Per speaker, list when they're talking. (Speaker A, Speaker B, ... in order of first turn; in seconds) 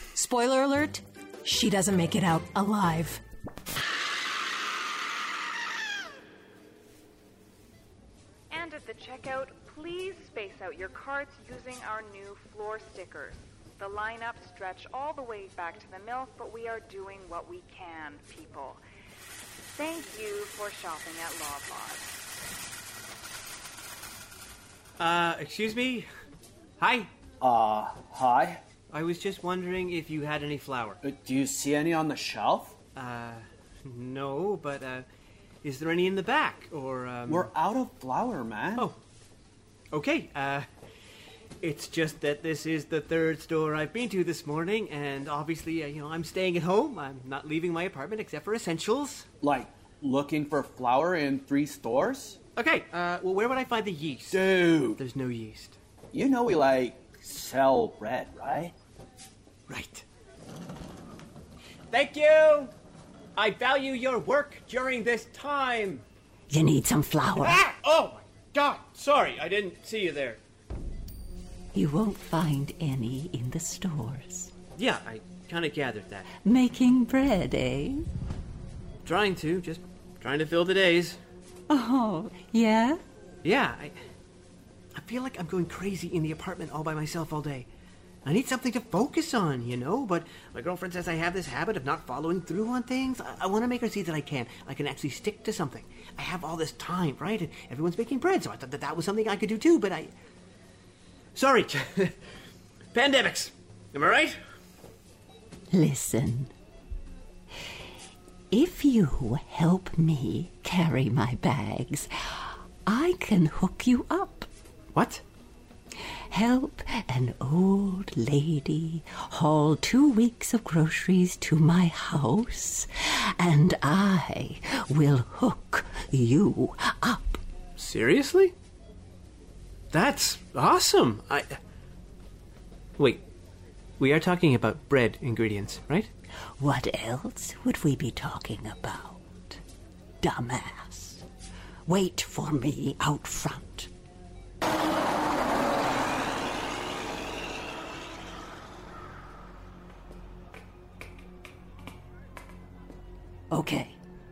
Speaker A: 0.1-3.2
Speaker B: 8.5-18.8, 19.7-22.1
Speaker C: 25.0-26.1, 26.8-27.1, 28.9-31.0, 33.0-35.0, 35.6-37.5, 39.9-40.7, 41.6-49.3, 52.5-55.8, 59.7-60.0, 61.9-62.7, 63.4-66.0, 67.4-70.4, 74.8-76.3, 79.0-81.2, 83.4-83.9, 84.9-87.7, 88.2-100.1, 101.3-102.1, 102.9-104.4, 114.9-115.2, 127.8-128.5, 129.9-131.6, 133.0-133.2, 134.0-136.1
Speaker D: 27.4-28.6, 31.0-32.8, 37.3-38.9, 49.4-52.4, 54.3-55.0, 56.1-58.7
Speaker E: 66.5-67.6, 71.7-74.5, 76.4-78.0, 81.7-83.0, 105.7-106.5, 108.5-114.5, 116.3-127.4, 136.6-139.6, 140.2-141.2, 141.8-143.9, 153.5-154.0